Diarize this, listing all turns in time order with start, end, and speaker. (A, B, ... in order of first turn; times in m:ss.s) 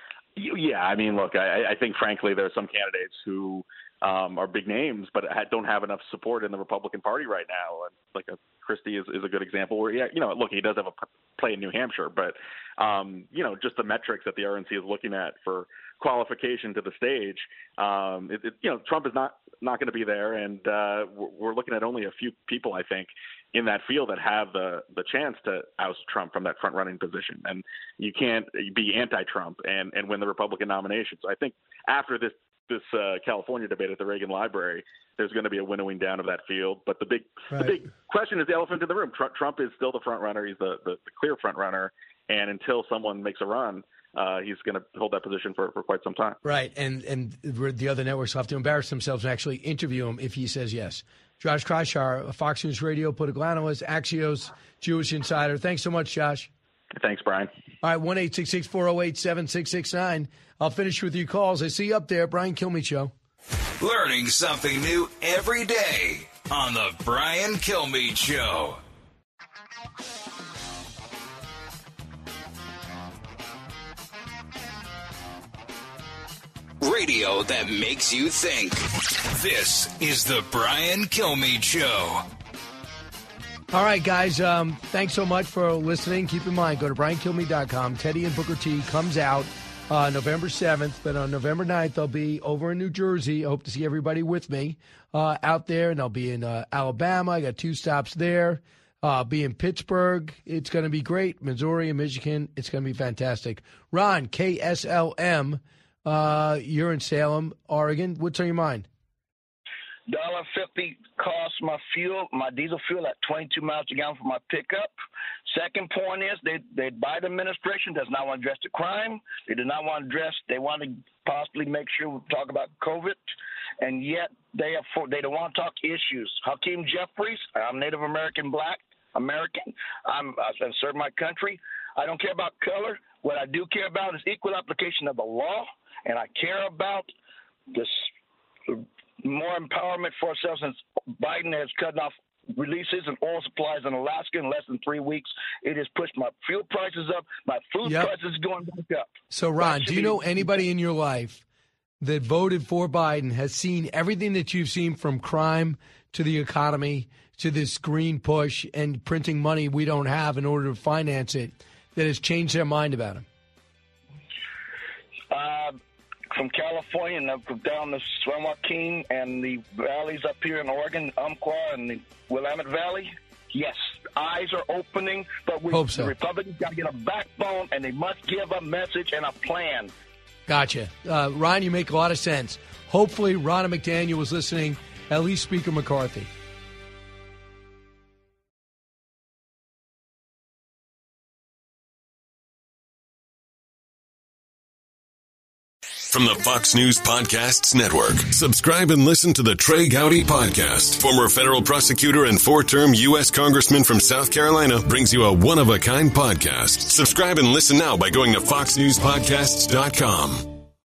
0:00.4-0:46.4 A
0:46.4-0:56.5 B
0:57.0-0:57.5 A
0:57.8-1:03.1 B
1:03.8-1:08.8 C
1:16.8-1:22.2 C
1:23.7-1:48.9 B
1:50.1-1:54.9 D
1:55.5-2:03.2 D
2:03.8-2:17.1 D
2:17.7-2:18.0 D
2:18.7-2:29.1 D
2:27.8-2:28.1 B
2:29.3-2:31.4 B
2:29.6-2:30.6 D
2:32.0-2:43.2 B
2:45.3-2:45.8 D
2:46.3-2:59.9 D
2:55.7-2:56.1 B
3:00.5-3:06.3 B
3:16.1-3:30.6 E